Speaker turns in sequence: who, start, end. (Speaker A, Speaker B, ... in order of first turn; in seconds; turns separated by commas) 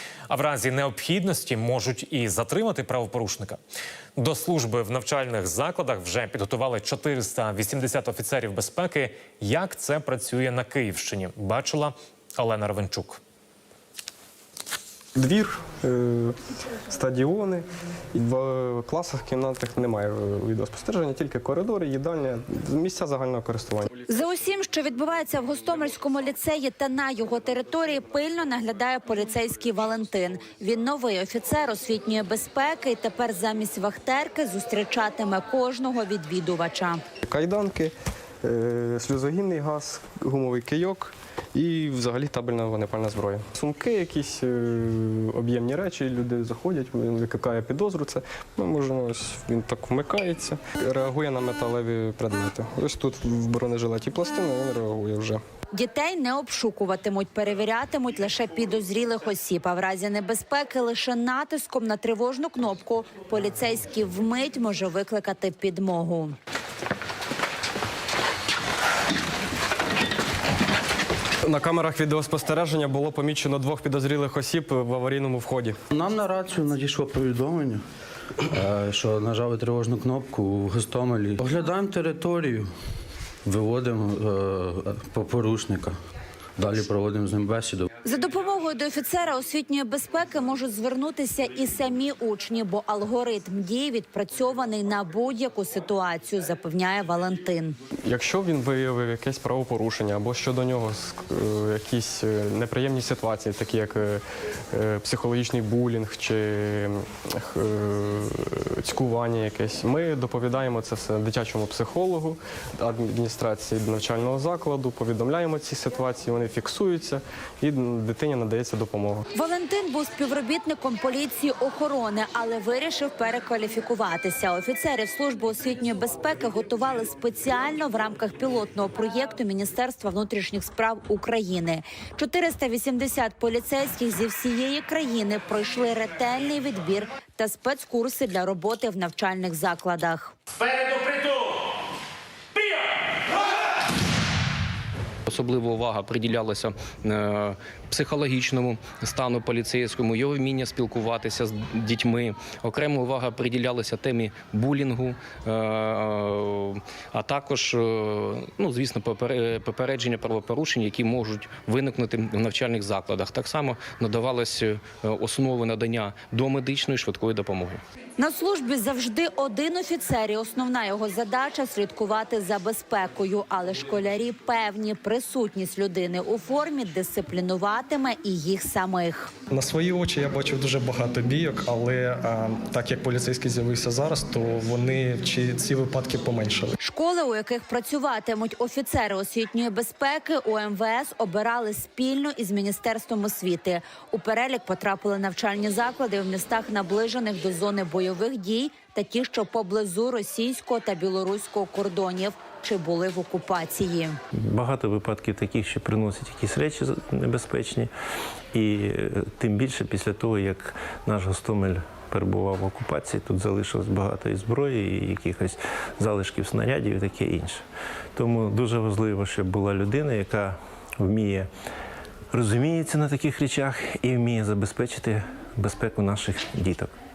Speaker A: 0.3-3.6, Speaker A: 4.2-13.2, Speaker B: 15.2-16.3, Speaker B: 16.9-24.0, Speaker C: 24.1-37.0, Speaker B: 37.2-55.4, Speaker C: 55.7-66.3, Speaker B: 71.4-75.8, Speaker D: 75.9-77.8, Speaker D: 78.5-82.7, Speaker D: 83.4-86.0, Speaker D: 86.6-87.9, Speaker C: 88.0-97.8, Speaker B: 98.0-119.2, Speaker C: 119.3-140.3, Speaker E: 145.2-167.8, Speaker C: 168.2-179.3, Speaker F: 179.5-186.8, Speaker C: 186.8-204.2, Speaker G: 204.3-207.9, Speaker G: 208.5-221.5, Speaker G: 222.3-226.9